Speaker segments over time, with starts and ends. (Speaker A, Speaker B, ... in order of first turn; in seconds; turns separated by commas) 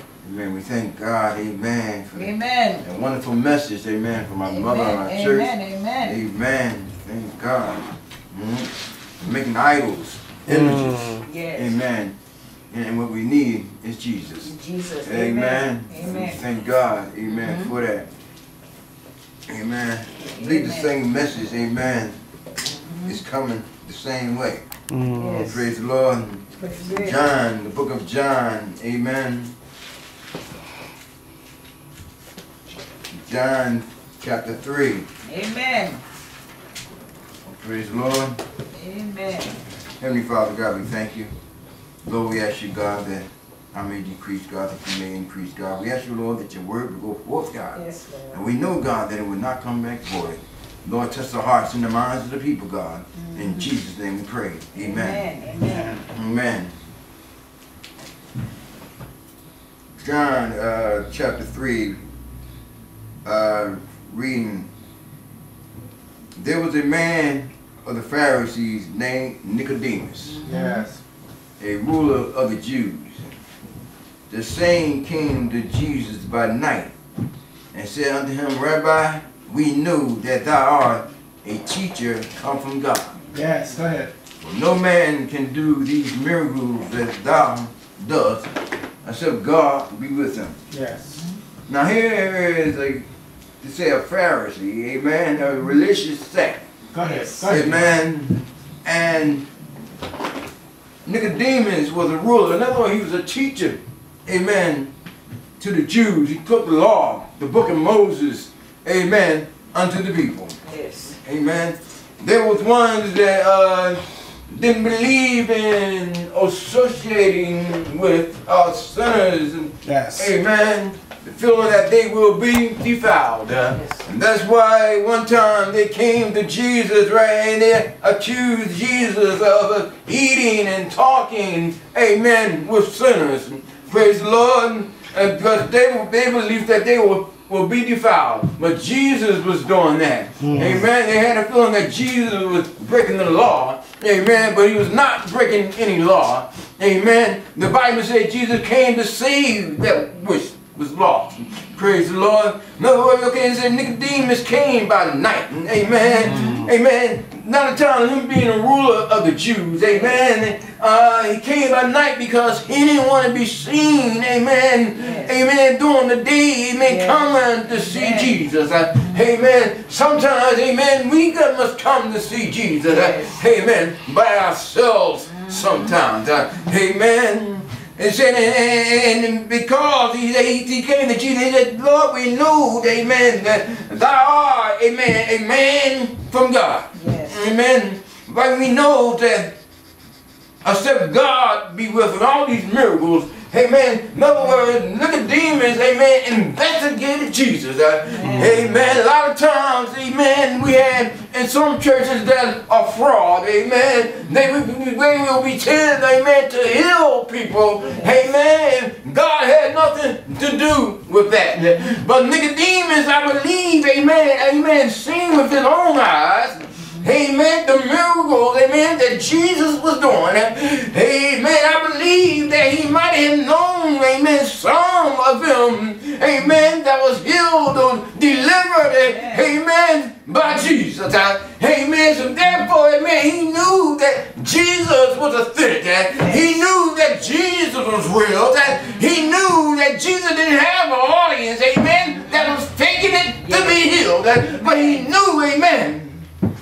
Speaker A: 0.2-12.2, Speaker B: 2.1-2.8, Speaker B: 4.5-6.2, Speaker B: 11.2-11.8, Speaker A: 12.7-18.1, Speaker B: 14.4-16.4, Speaker B: 17.2-17.7, Speaker A: 19.5-22.2, Speaker B: 20.3-20.9, Speaker B: 22.6-23.2, Speaker A: 23.0-24.6, Speaker B: 25.1-25.7, Speaker A: 25.3-29.5, Speaker B: 26.6-27.3, Speaker A: 33.1-35.1, Speaker B: 35.2-36.0, Speaker A: 37.5-38.4, Speaker B: 38.7-39.6, Speaker A: 40.0-41.3, Speaker A: 42.0-55.3, Speaker B: 47.7-48.4, Speaker B: 53.2-53.7, Speaker B: 54.7-56.0, Speaker A: 56.0-56.7, Speaker A: 60.0-62.0, Speaker A: 63.2-64.7, Speaker A: 66.4-70.4, Speaker B: 70.3-70.9, Speaker C: 70.4-71.0, Speaker A: 71.6-73.3, Speaker A: 74.3-76.9, Speaker A: 77.7-83.2, Speaker C: 83.3-84.1, Speaker B: 83.4-83.7, Speaker A: 84.4-88.5, Speaker A: 89.0-90.6, Speaker C: 90.7-91.2, Speaker A: 91.7-93.1, Speaker A: 93.6-96.6, Speaker C: 96.9-97.9, Speaker B: 97.0-97.7, Speaker A: 97.5-99.5, Speaker A: 101.0-104.9, Speaker A: 105.6-110.6, Speaker B: 110.6-111.2, Speaker A: 111.2-189.5, Speaker C: 119.8-120.3, Speaker B: 123.7-124.0, Speaker B: 156.2-156.5, Speaker B: 159.9-160.2, Speaker B: 165.0-165.4, Speaker B: 166.8-168.3, Speaker B: 172.9-173.4, Speaker B: 175.3-175.9, Speaker B: 186.9-187.4, Speaker A: 190.6-246.2, Speaker B: 198.1-198.7, Speaker B: 229.0-229.5, Speaker B: 236.2-236.6, Speaker B: 238.7-239.2, Speaker B: 242.1-242.6, Speaker B: 243.4-243.8, Speaker B: 244.5-245.1